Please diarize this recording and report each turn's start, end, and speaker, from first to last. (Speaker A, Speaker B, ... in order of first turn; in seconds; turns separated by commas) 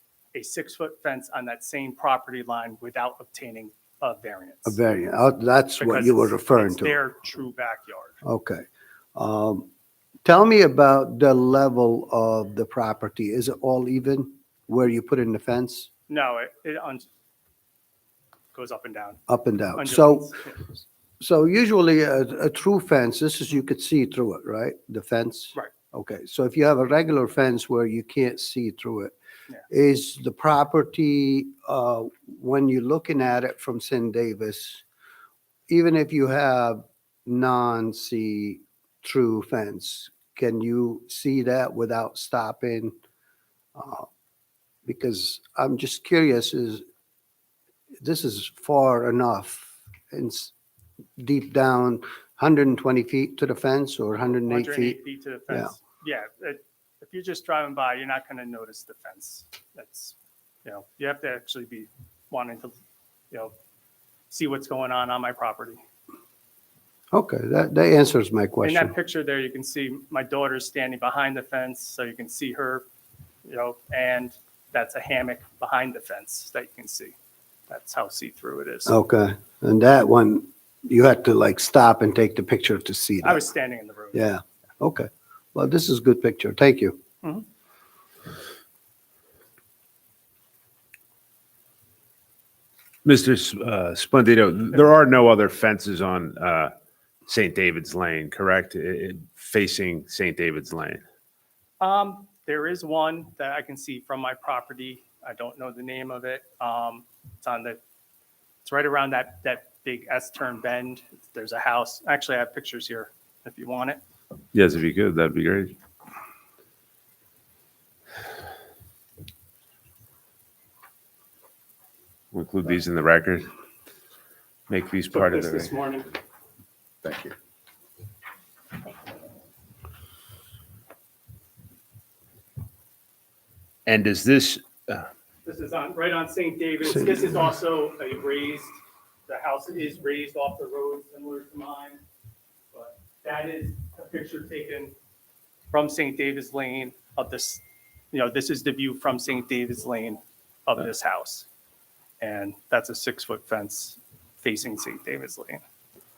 Speaker A: 0.3-4.8, Speaker B: 4.7-7.0, Speaker A: 5.8-8.2, Speaker B: 8.2-8.6, Speaker B: 9.1-9.7, Speaker B: 10.2-15.9, Speaker A: 16.1-17.1, Speaker A: 18.5-19.2, Speaker B: 19.3-20.3, Speaker A: 19.8-20.6, Speaker B: 21.2-29.1, Speaker B: 29.7-34.8, Speaker B: 35.7-42.9, Speaker B: 43.7-44.0, Speaker B: 44.9-46.8, Speaker B: 48.0-50.5, Speaker B: 51.2-55.0, Speaker A: 54.5-62.7, Speaker A: 64.3-65.8, Speaker B: 67.1-68.9, Speaker A: 68.6-72.8, Speaker A: 73.4-77.1, Speaker A: 77.7-78.9, Speaker B: 78.9-83.4, Speaker A: 83.2-84.3, Speaker B: 84.1-87.0, Speaker C: 93.0-96.7, Speaker C: 97.3-101.0, Speaker A: 101.8-107.8, Speaker A: 108.6-114.0, Speaker C: 114.5-115.7, Speaker C: 122.3-123.5, Speaker C: 124.7-125.7, Speaker A: 125.1-126.1, Speaker C: 133.8-135.1, Speaker A: 135.4-142.0, Speaker A: 142.7-144.9, Speaker A: 145.7-151.4, Speaker A: 152.2-155.6